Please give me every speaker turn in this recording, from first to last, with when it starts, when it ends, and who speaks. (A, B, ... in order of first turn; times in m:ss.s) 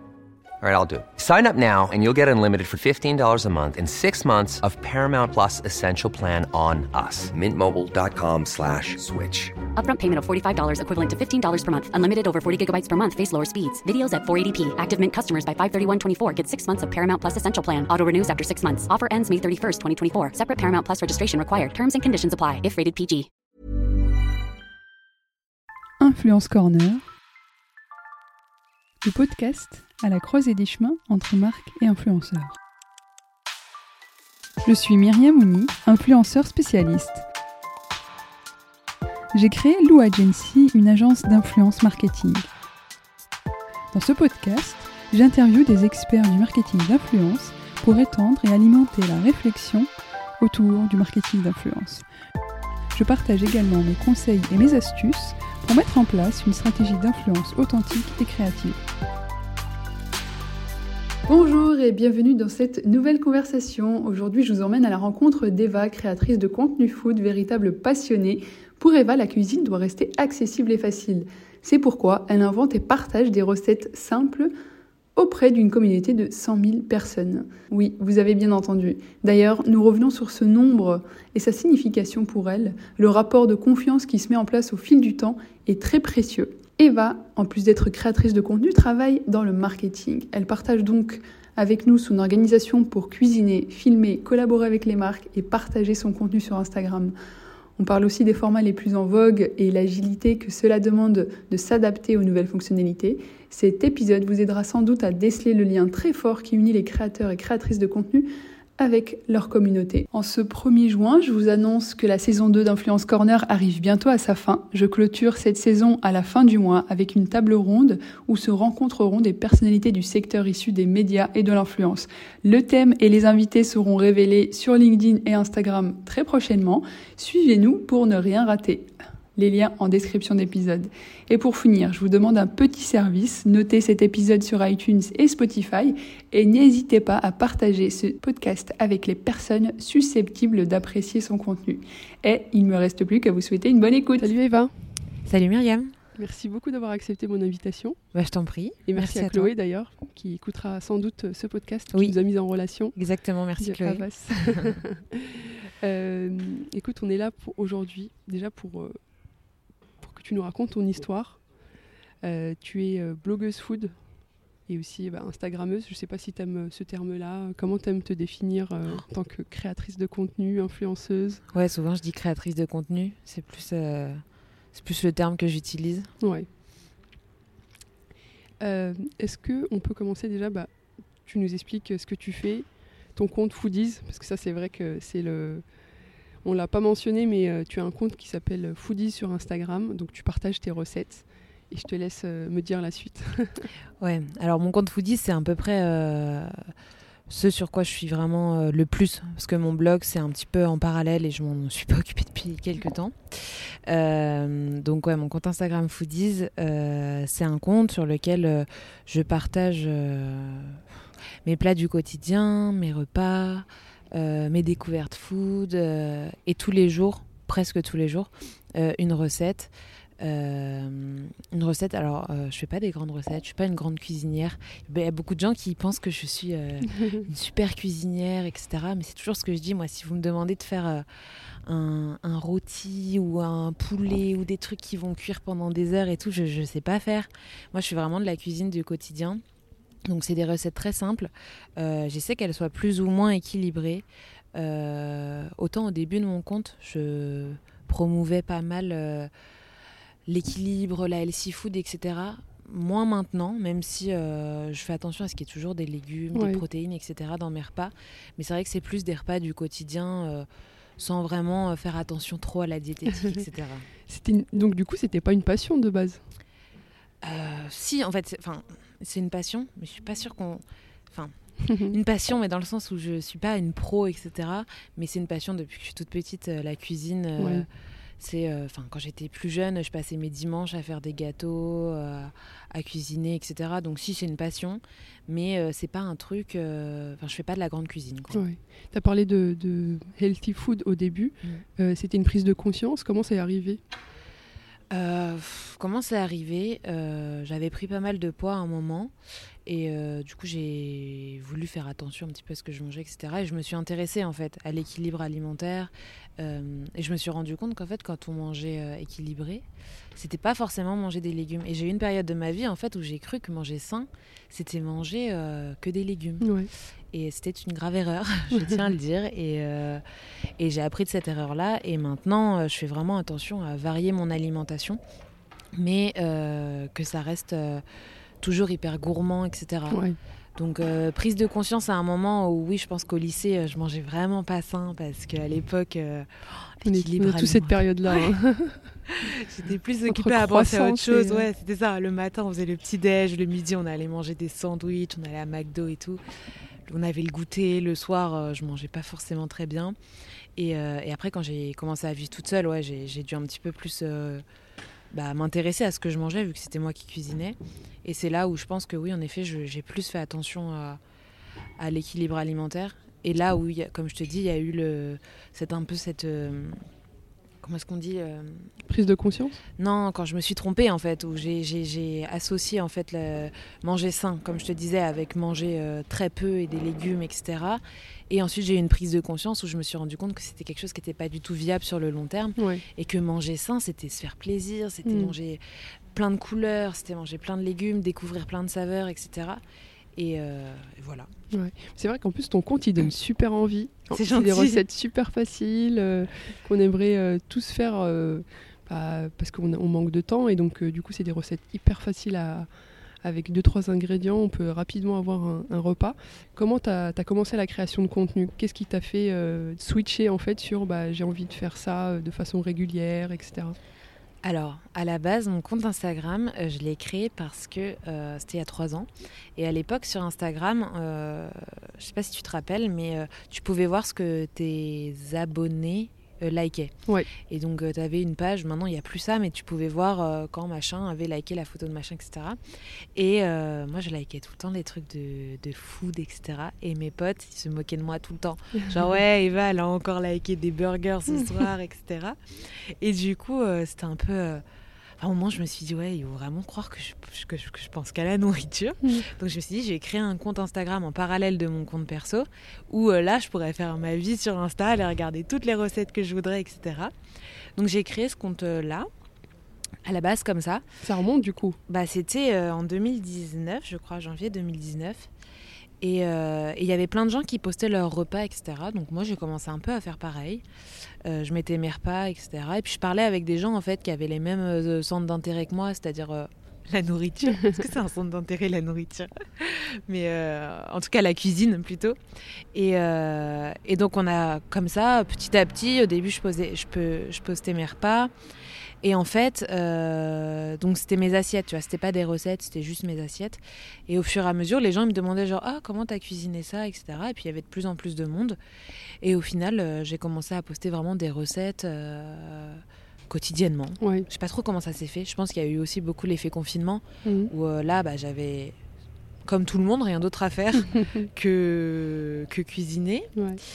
0:00.6-0:09.6 A
0:09.7-0:23.3 B
0:26.0-0:27.0 C
0:29.0-0:32.5 C
0:34.6-0:37.2 C
0:39.3-0:42.5 C
0:43.9-0:49.9 C
0:50.4-0:52.0 C
0:52.9-0:58.8 C
1:01.3-1:14.5 C
1:15.2-1:37.1 C
1:37.8-2:24.3 C
2:24.2-2:24.7 D
2:25.2-2:25.9 E
2:26.2-2:28.0 D
2:28.1-2:29.5 E
2:28.9-2:33.0 D
2:33.0-2:34.8 E
2:33.6-2:39.0 D
2:40.0-2:41.4 D
2:42.2-2:43.9 D
2:44.7-2:51.4 D
2:51.5-2:54.2 E
2:54.7-2:56.1 E
2:56.2-2:56.5 D
2:58.6-3:00.7 D
3:01.2-3:05.6 D
3:06.4-3:13.7 D
3:14.0-3:16.7 E
3:17.3-3:30.8 E
3:31.4-3:51.0 E
3:51.6-3:59.4 E
4:00.0-4:09.3 E
4:10.3-4:20.5 E
4:16.3-4:16.6 D
4:21.0-4:23.9 E
4:24.1-4:26.2 D
4:27.2-4:37.6 E
4:37.4-4:37.6 D
4:38.2-4:48.4 E
4:48.3-4:53.8 D
4:54.9-4:59.1 E
4:59.6-5:09.6 E
5:10.2-5:16.5 E
5:16.4-5:16.7 D
5:17.1-5:20.0 E
5:20.6-5:25.0 E
5:25.7-5:27.8 E
5:28.4-5:30.0 E
5:29.9-5:30.2 D
5:30.6-5:37.8 E
5:36.8-5:38.8 D
5:39.1-5:46.2 E
5:40.1-5:41.5 D
5:46.9-5:50.0 E
5:50.6-5:54.4 E
5:55.1-6:01.0 E
6:01.8-6:06.8 E
6:07.6-6:08.7 E
6:08.9-6:09.6 D
6:09.8-6:25.6 E
6:22.6-6:22.8 D
6:25.0-6:25.3 D
6:26.1-6:29.6 E
6:30.2-6:31.3 E
6:31.5-6:42.7 D
6:34.1-6:34.8 E
6:43.2-6:53.8 D
6:54.4-7:06.9 E
7:07.5-7:12.6 E
7:13.2-7:24.6 E
7:25.2-7:37.1 E
7:37.8-7:39.1 E
7:40.0-7:40.8 E
7:41.0-7:41.8 D
7:41.9-7:45.3 E
7:46.0-7:50.6 E
7:51.2-8:02.2 E
8:02.7-8:08.3 E
8:09.0-8:18.6 E
8:19.2-8:28.7 E
8:24.0-8:24.3 D
8:27.2-8:27.5 D
8:29.5-8:33.3 E